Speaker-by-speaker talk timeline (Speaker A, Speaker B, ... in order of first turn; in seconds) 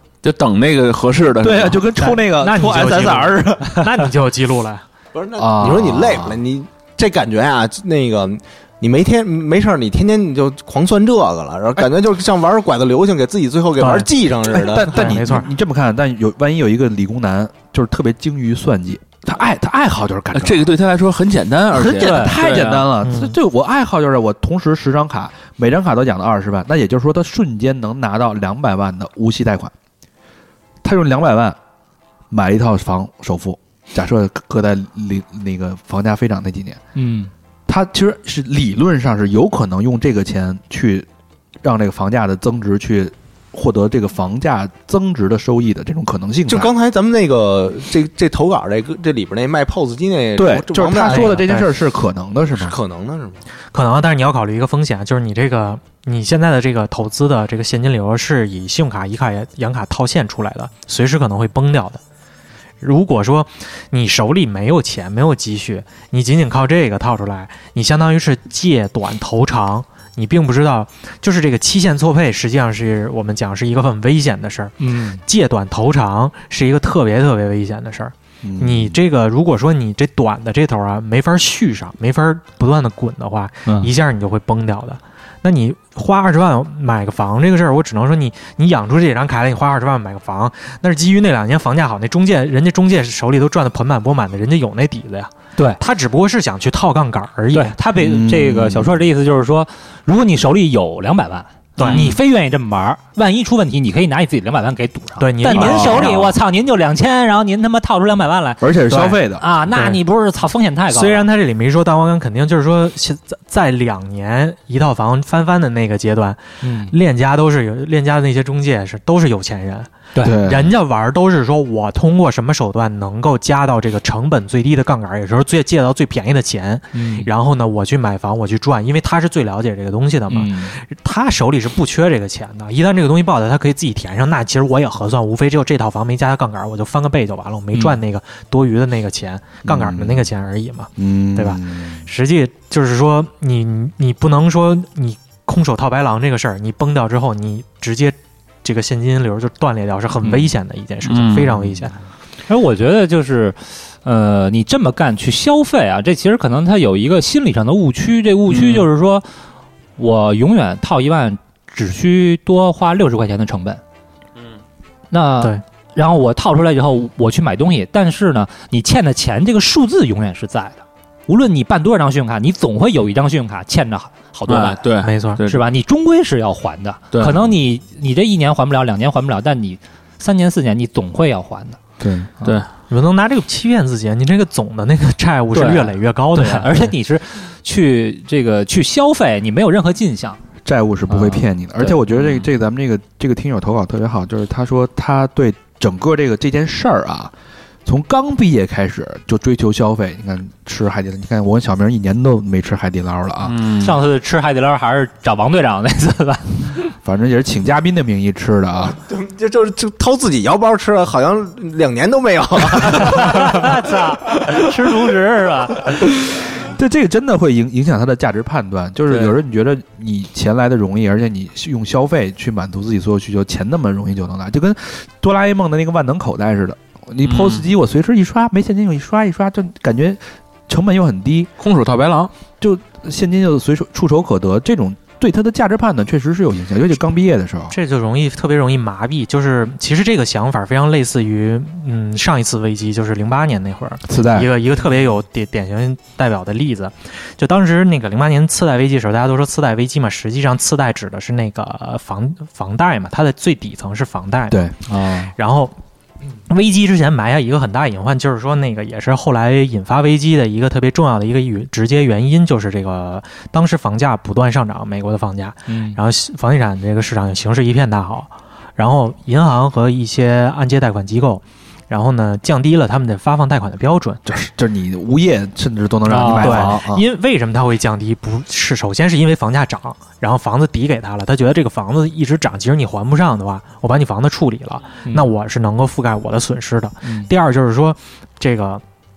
Speaker A: 0.2-1.8, 20.3-22.9, 151.0-151.6, 158.5-158.8, 174.5-175.6, 177.1-177.4, 182.4-182.7, 203.4-203.9, 227.2-227.6, 231.6-232.3
Speaker B: 1.4-3.8, 5.4-6.4, 14.5-20.7, 21.7-29.7, 30.8-31.6, 32.3-36.8, 37.7-41.1, 41.6-46.7, 50.3-52.8, 78.4-79.0, 98.0-99.0, 105.5-106.2, 108.6-110.0, 120.2-120.7, 139.6-140.3, 141.0-142.1, 182.0-182.3, 190.6-197.3, 197.8-203.6, 207.0-209.0, 216.3-231.5, 232.6-237.7, 244.0-244.5, 254.5-254.8, 274.2-277.0
Speaker C: 2.0-4.8, 13.8-14.1, 14.9-15.5, 23.0-23.3, 51.0-51.7, 53.7-62.0, 62.8-97.7, 101.8-102.1, 105.2-106.3, 110.9-151.9, 175.0-175.4, 182.9-186.9, 237.7-254.6, 255.3-255.7, 256.5-274.2, 276.3-288.8
Speaker D: 5.1-15.0, 46.5-51.4, 52.5-53.4, 208.8-213.7
Speaker E: 22.0-22.4, 36.9-37.3, 74.8-75.2, 97.5-111.3, 116.6-116.9, 120.1-120.4, 126.9-127.3, 130.3-130.7, 152.5-159.2, 160.0-163.8, 165.1-174.8, 175.4-181.8, 185.5-190.4, 191.1-192.0, 203.8-206.8, 213.0-216.1, 254.9-255.3, 265.7-266.0, 276.1-276.8, 287.0-287.3